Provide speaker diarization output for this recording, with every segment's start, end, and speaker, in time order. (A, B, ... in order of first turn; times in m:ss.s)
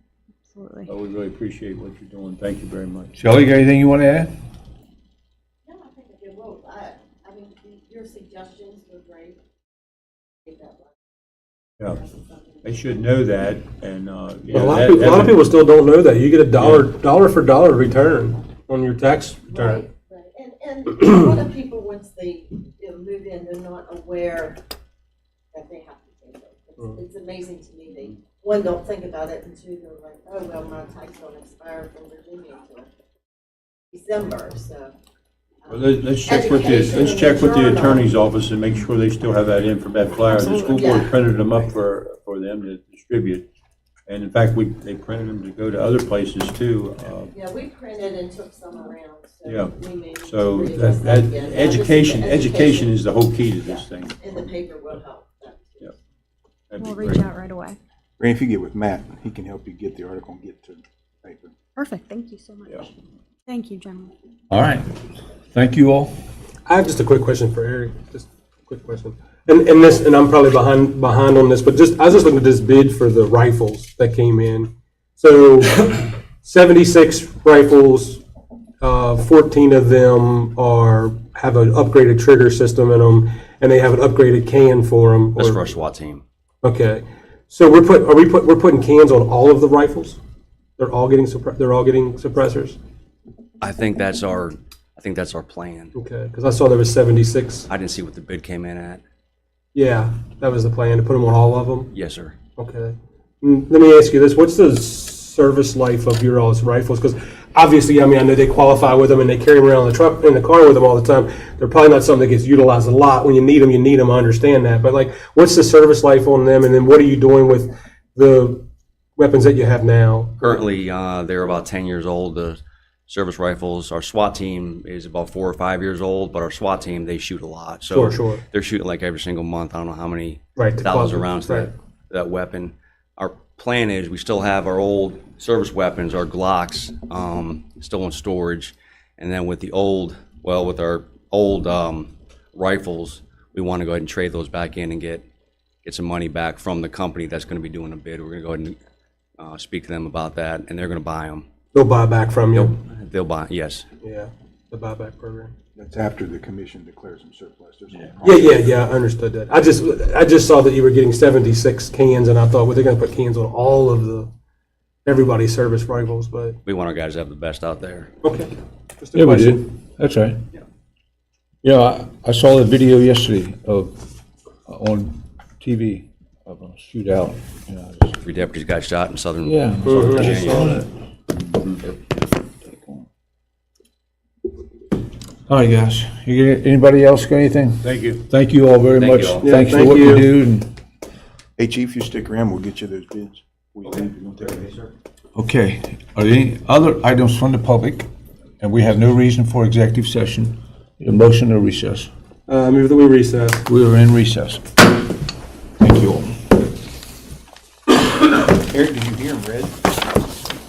0:00.5-0:00.9 A
0:00.9-0:03.2 B
0:03.2-0:04.3 C
0:05.7-0:09.4 D
0:10.5-0:11.0 D
0:11.9-0:12.8 D
0:12.6-0:15.4 B
0:14.5-0:19.8 E
0:16.6-0:16.9 B
0:19.5-0:24.6 D
0:25.5-0:32.9 D
0:33.9-0:34.9 D
0:35.6-0:38.1 D
0:35.7-0:43.5 B
0:40.3-0:40.8 A
0:40.6-0:41.1 D
0:44.1-0:47.4 B
0:47.3-0:55.9 D
0:49.5-0:54.6 B
0:56.7-0:57.3 B
0:56.8-0:57.8 A
0:58.2-1:01.6 F
1:01.8-1:02.8 A
1:03.5-1:04.1 A
1:04.5-1:05.0 C
1:05.5-1:06.1 C
1:06.7-1:18.2 E
1:18.8-1:25.6 E
1:25.4-1:26.2 G
1:26.6-1:30.2 E
1:30.8-1:32.8 E
1:33.6-1:35.9 G
1:35.9-1:37.7 E
1:37.7-1:39.0 G
1:39.7-1:41.9 E
1:41.9-1:42.4 G
1:42.6-1:58.7 E
1:59.2-2:00.4 E
2:00.4-2:25.2 G
2:07.9-2:08.4 E
2:10.6-2:11.7 E
2:25.8-2:28.8 G
2:29.4-2:31.5 G
2:31.7-2:32.8 E
2:32.5-2:33.9 G
2:34.0-2:35.5 E
2:35.8-2:38.6 F
2:38.2-2:44.3 E
2:45.0-2:46.6 E
2:46.7-2:48.1 G
2:48.2-2:49.6 E
2:49.2-2:50.4 C
2:51.6-2:54.0 C
2:54.7-2:58.2 C
2:58.2-3:00.8 G
2:59.4-3:00.9 C
2:59.8-3:00.8 E
3:05.5-3:10.7 C
3:07.8-3:08.2 B
3:09.0-3:09.5 G
3:09.4-3:10.3 E
3:11.6-3:14.8 F
3:13.8-3:14.8 G
3:15.4-3:18.1 C
3:18.6-3:22.1 C
3:22.5-3:23.7 E
3:23.7-3:24.7 C
3:25.8-3:26.4 C
3:28.6-3:29.7 F